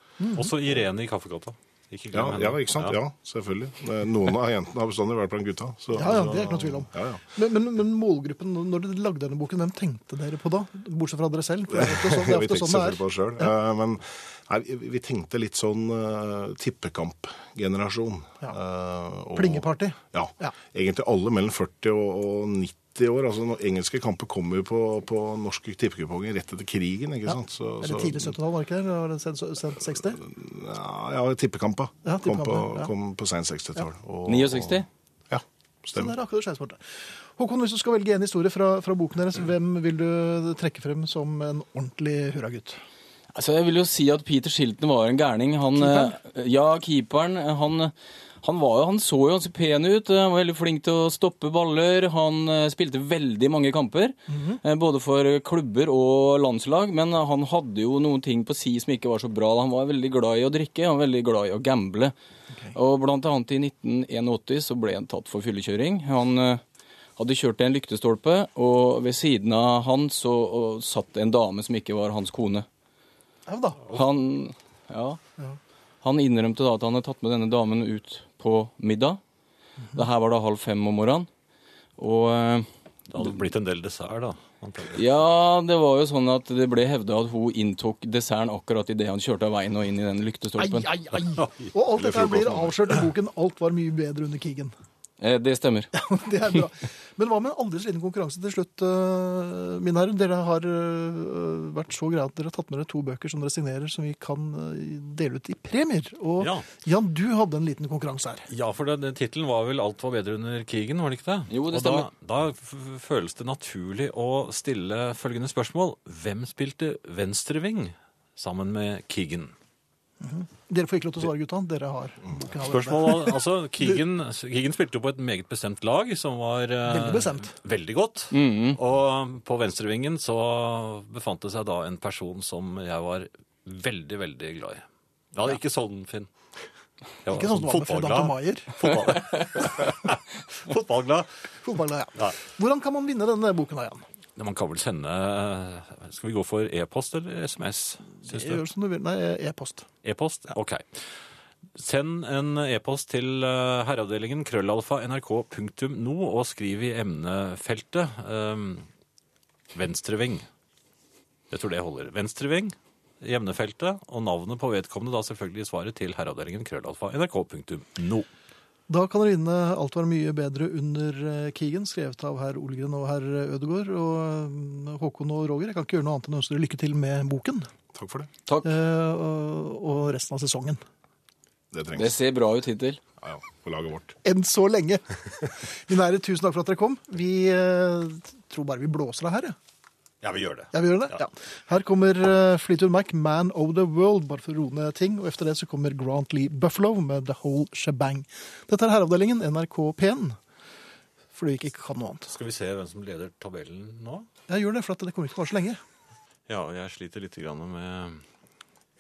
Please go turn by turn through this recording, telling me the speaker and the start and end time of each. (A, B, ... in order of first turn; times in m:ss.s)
0:00.2-0:00.5 A
0:00.4-0:03.0 B
0:02.1-0:07.2 C
0:05.9-0:13.5 A
0:11.7-0:28.4 C
0:19.3-0:20.5 A
0:27.2-0:30.2 A
0:29.9-0:36.1 C
0:32.0-0:32.9 A
0:34.3-0:34.9 D
0:35.9-0:42.8 A
0:43.3-1:02.1 D
0:45.8-0:46.1 A
0:54.3-0:54.6 A
1:02.7-1:06.6 D
1:07.2-1:12.7 D
1:13.5-1:13.8 A
1:13.9-1:15.2 D
1:16.0-1:19.2 D
1:19.9-1:21.3 D
1:22.0-1:22.7 D
1:23.1-1:25.1 B
1:24.9-1:30.9 D
1:30.6-1:34.7 A
1:31.4-1:31.7 B
1:32.0-1:32.7 C
1:35.2-1:35.9 D
1:35.9-1:48.5 A
1:46.4-1:46.6 B
1:48.5-1:59.5 B
1:51.5-1:52.1 D
2:00.2-2:03.9 A
2:02.6-2:16.3 B
2:06.8-2:07.6 A
2:08.3-2:08.8 D
2:17.2-2:21.4 B
2:17.3-2:18.7 A
2:21.6-2:24.0 A
2:24.4-2:28.6 B
2:28.2-2:29.9 A
2:30.0-2:31.0 B
2:31.8-2:38.9 B
2:39.7-2:40.5 B
2:41.5-2:48.3 B
2:48.9-2:57.7 A
2:57.9-2:58.3 C
2:58.6-3:00.8 A
3:01.7-3:02.2 C
3:01.9-3:03.0 D
3:03.2-3:04.2 C
3:04.2-3:05.0 A
3:05.6-3:09.6 A
3:10.2-3:11.2 B
3:10.7-3:20.4 A
3:21.3-3:22.3 A
3:22.3-3:24.3 B
3:24.5-3:25.8 A
3:26.5-3:28.2 B